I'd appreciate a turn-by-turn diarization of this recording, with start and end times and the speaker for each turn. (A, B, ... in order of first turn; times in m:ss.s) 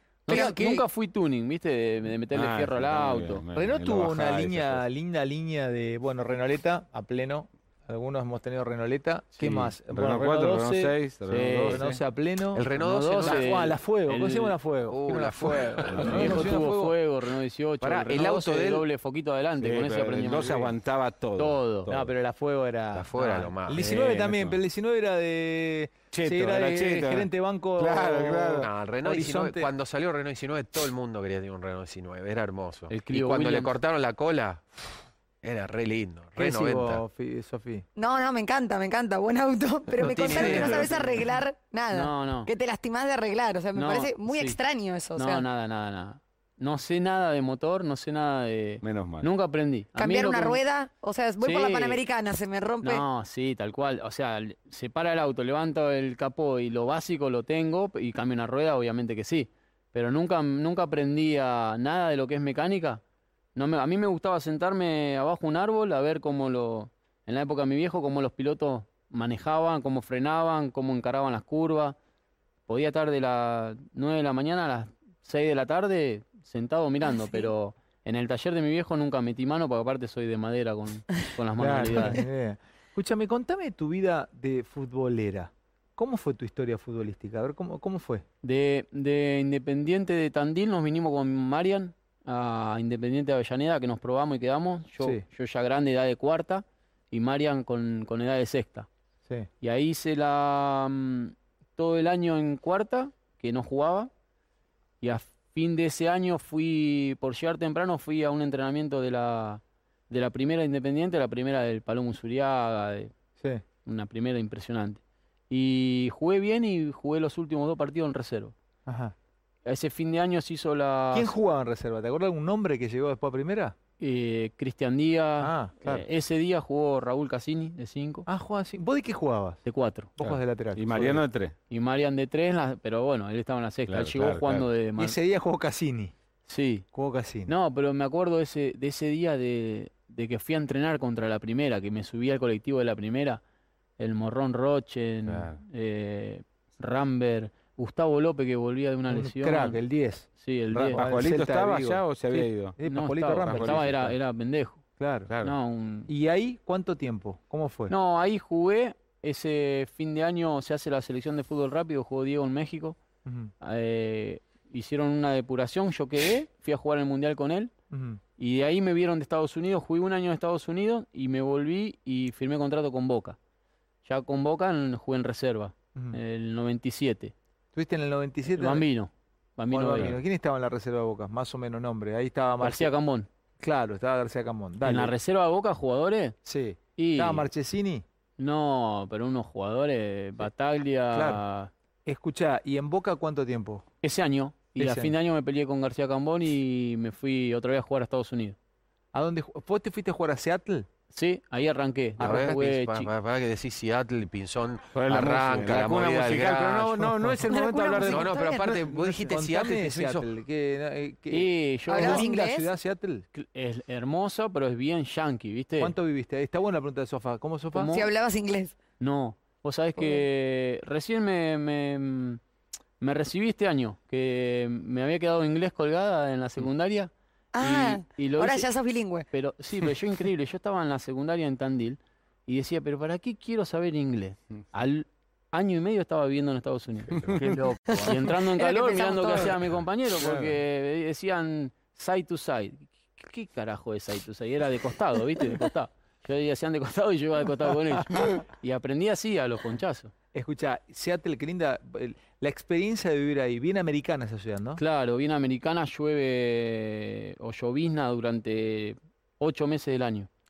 0:00.3-0:03.4 A
0:00.3-0:00.8 B
0:02.3-0:04.8 C
0:03.5-0:11.0 B
0:09.4-0:12.0 C
0:11.3-0:11.9 A
0:11.7-0:12.7 B
0:12.5-0:13.7 D
0:12.7-0:14.6 A
0:13.2-0:17.0 B
0:14.9-0:16.4 D
0:15.1-0:20.8 A
0:15.9-0:16.5 C
0:17.8-0:18.9 D
0:19.6-0:22.1 C
0:21.4-0:21.9 A
0:21.9-0:29.7 B
0:22.9-0:24.0 D
0:23.8-0:24.6 C
0:26.1-0:28.7 C
0:28.6-0:34.8 D
0:32.9-0:33.7 A
0:35.4-0:37.0 D
0:36.4-0:37.8 B
0:38.0-0:45.4 E
0:40.0-0:41.3 D
0:40.3-0:40.9 A
0:41.9-0:42.5 A
0:43.7-0:44.6 A
0:45.2-0:50.6 A
0:48.8-0:49.3 C
0:50.0-0:53.0 E
0:51.4-0:52.0 A
0:52.8-1:03.0 A
1:03.6-1:12.0 A
1:12.7-1:22.2 A
1:21.6-1:28.2 B
1:28.4-1:38.9 A
1:39.6-1:44.1 A
1:45.0-1:53.1 A
1:53.8-1:58.5 A
1:58.9-1:59.1 B
1:59.6-2:01.4 A
2:01.1-2:03.8 B
2:04.0-2:08.3 A
2:05.4-2:05.8 B
2:08.3-2:09.6 B
2:09.6-2:10.2 A
2:10.2-2:11.2 B
2:10.2-2:11.5 C
2:11.7-2:15.2 A
2:13.9-2:14.7 C
2:15.0-2:16.1 B
2:16.5-2:16.9 A
2:16.9-2:17.5 B
2:17.5-2:23.4 A
2:24.0-2:29.8 A
2:25.3-2:25.6 C
2:29.1-2:34.1 B
2:30.4-2:31.0 A
2:30.8-2:32.8 C
2:32.8-2:34.8 A
2:33.4-2:34.1 C
2:35.0-2:35.3 B
2:35.3-2:35.6 C
2:35.4-2:36.1 A
2:36.1-2:37.9 B
2:37.9-2:43.0 A
2:43.2-2:43.5 B
2:43.6-2:47.7 A
2:47.9-2:48.2 B
2:48.4-2:53.4 A
2:54.0-2:57.3 A
2:57.7-2:58.9 B
2:58.5-3:00.2 A
2:59.7-3:02.9 B
3:02.6-3:03.3 A
3:03.6-3:05.1 B
3:04.8-3:06.4 A
3:06.4-3:08.0 B
3:07.0-3:07.5 A
3:08.4-3:11.7 A
3:11.1-3:11.4 B
3:12.1-3:13.8 B
3:14.0-3:18.6 A
3:14.8-3:15.1 B
3:19.1-3:20.9 B
3:21.1-3:23.1 A
3:22.2-3:22.6 B
3:22.2-3:27.1 D
3:24.9-3:28.3 C
3:27.1-3:27.5 B
3:27.5-3:28.8 E
3:28.0-3:30.3 D
3:28.8-3:33.3 B
3:31.3-3:32.3 A
3:31.9-3:32.7 E
3:33.3-3:36.0 A
3:35.8-3:38.0 B
3:37.8-3:38.1 A
3:37.8-3:38.8 E
3:39.0-3:42.4 A
3:40.0-3:40.2 E
3:43.0-3:48.7 A
3:47.6-3:49.3 E
3:49.3-4:10.1 A
3:57.1-3:57.6 C
3:57.9-3:59.6 E
4:00.3-4:00.5 C
4:10.3-4:14.8 B
4:14.8-4:20.3 A